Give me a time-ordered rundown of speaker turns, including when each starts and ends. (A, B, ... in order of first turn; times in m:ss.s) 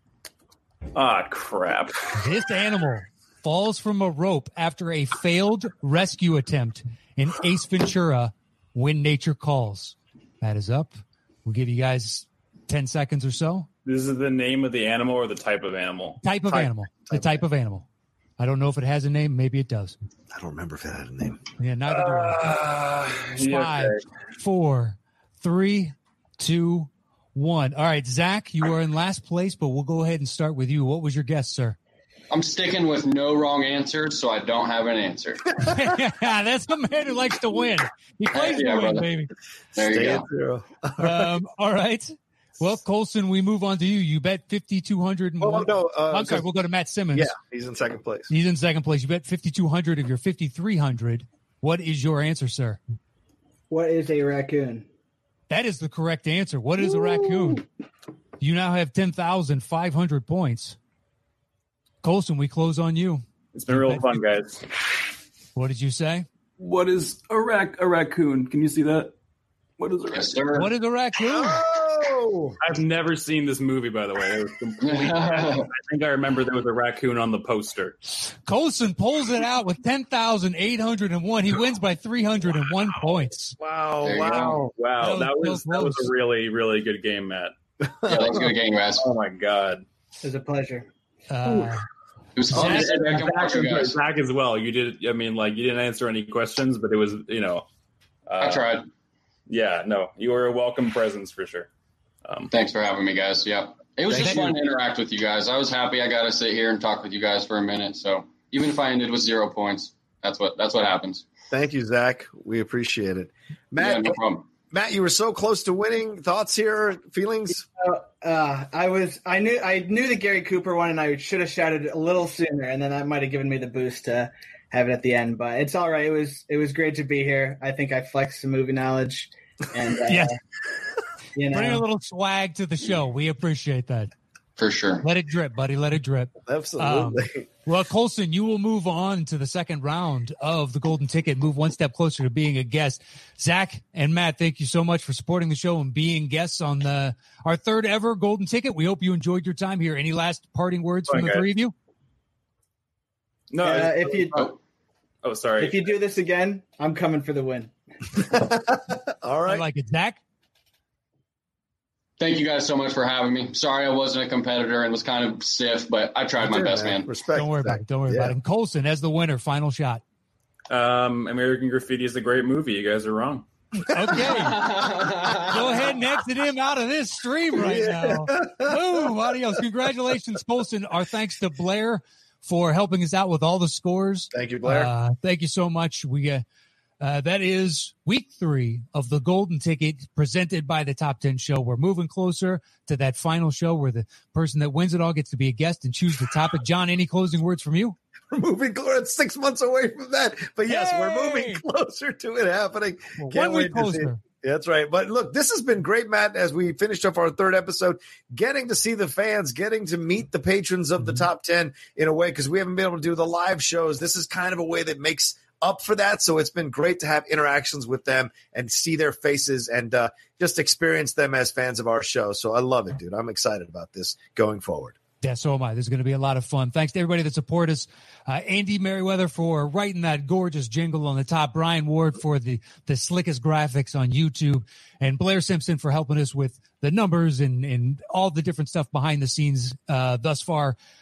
0:00.9-0:02.0 A
0:02.2-0:13.7 B
0:13.8-0:16.2 A
0:16.2-0:17.9 B
0:18.4-0:20.0 B
0:20.3-0:21.4 C
0:21.6-0:22.4 B
0:21.9-0:24.0 A
0:23.4-0:31.8 B
0:32.3-0:35.5 D
0:35.6-0:39.3 B
0:38.3-0:39.1 D
0:39.8-0:40.3 D
0:39.8-0:41.3 C
0:41.0-0:47.3 B
0:45.4-0:46.5 C
0:47.1-0:48.3 C
0:48.3-0:52.8 B
0:53.7-0:54.9 E
0:55.5-0:57.6 B
0:58.4-1:00.8 B
1:02.0-1:04.2 B
1:03.5-1:04.6 A
1:05.6-1:06.3 B
1:06.6-1:09.1 A
1:09.8-1:10.4 A
1:10.1-1:10.7 D
1:10.5-1:11.6 B
1:11.2-1:12.6 C
1:12.6-1:18.0 A
1:14.8-1:15.7 D
1:18.4-1:23.6 B
1:23.6-1:24.7 C
1:24.0-1:24.6 D
1:24.7-1:27.5 A
1:25.0-1:26.1 B
1:28.0-1:28.4 C
1:28.1-1:29.0 D
1:29.0-1:29.8 A
1:30.2-1:30.9 E
1:31.3-1:31.8 B
1:32.4-1:34.0 D
1:32.5-1:33.2 B
1:32.5-1:37.7 A
1:38.3-1:38.8 A
1:38.4-1:38.9 D
1:39.5-1:41.7 A
1:42.2-1:42.5 A
1:42.5-1:51.2 D
1:44.1-1:44.4 C
1:51.5-1:54.2 C
1:53.8-1:54.5 D
1:54.7-1:57.6 C
1:57.8-2:10.4 E
2:10.1-2:10.3 B
2:11.4-2:11.8 E
2:11.5-2:14.1 B
2:14.6-2:15.0 D
2:15.0-2:31.7 B
2:16.5-2:17.5 C
2:31.1-2:31.5 A
2:33.5-2:34.5 A
2:33.6-2:34.5 E
2:35.2-2:35.9 A
2:35.6-2:37.7 E
2:38.2-2:39.7 C
2:39.5-2:40.2 B
2:42.2-2:47.1 D
2:46.4-2:48.4 C
2:47.4-2:50.0 B
2:50.7-2:53.5 A
2:53.9-3:06.4 B
2:54.2-2:56.0 D
2:57.6-2:59.1 C
3:04.3-3:04.9 C
3:07.0-3:18.0 B
3:18.3-3:45.0 C
3:20.7-3:21.6 B
3:23.2-3:24.2 B
3:45.2-4:00.8 B